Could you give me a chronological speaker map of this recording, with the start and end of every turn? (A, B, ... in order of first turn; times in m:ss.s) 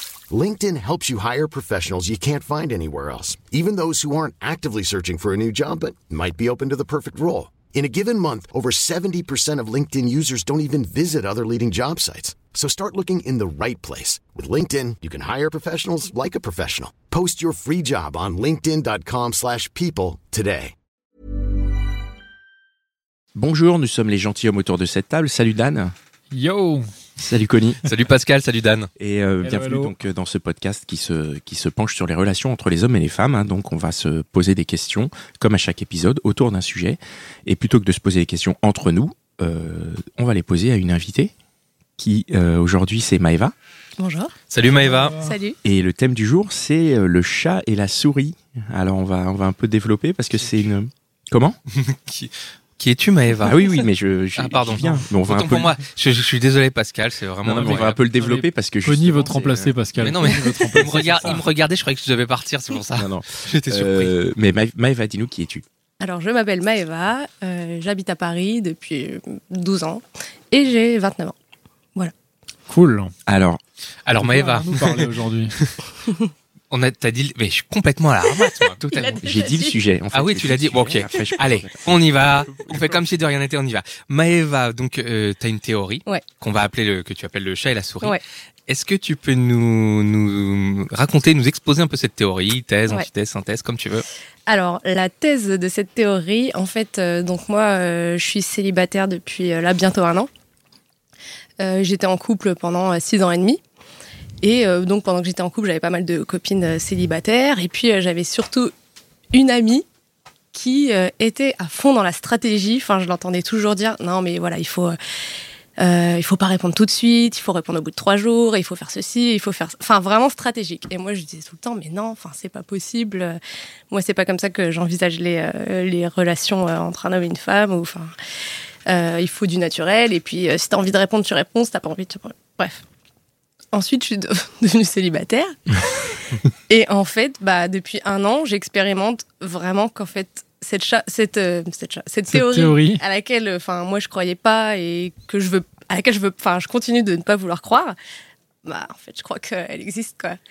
0:00.3-0:20.8 A
0:23.4-0:25.9 B
0:26.3-0:26.9 C
0:27.2-0:27.8 B
0:27.8-0:28.9 D
0:29.0-0:41.3 B
0:29.4-0:29.9 C
0:42.0-0:43.5 B
0:44.0-0:44.3 E
0:44.5-0:45.2 D
0:45.2-0:45.6 E
0:45.6-0:51.6 B
0:51.7-0:53.6 D
0:53.4-0:55.7 B
0:54.4-0:58.0 D
0:57.4-1:01.4 C
0:57.5-0:59.7 B
1:00.0-1:04.1 D
1:03.0-1:05.6 B
1:06.0-1:11.4 E
1:12.7-1:13.1 C
1:13.3-1:13.6 B
1:14.0-1:15.8 D
1:14.2-1:15.6 C
1:16.7-1:19.2 D
1:18.9-1:19.8 E
1:19.2-1:23.1 B
1:20.1-1:34.0 D
1:34.5-1:40.3 E
1:41.6-1:43.6 E
1:44.4-1:48.7 E
1:49.3-1:49.9 E
1:50.5-1:55.0 E
1:55.8-2:03.4 E
2:03.9-2:08.1 E
2:08.9-2:12.8 E
2:13.7-2:15.8 E
2:16.7-2:28.0 E
2:22.3-2:23.0 C
2:28.6-2:30.4 E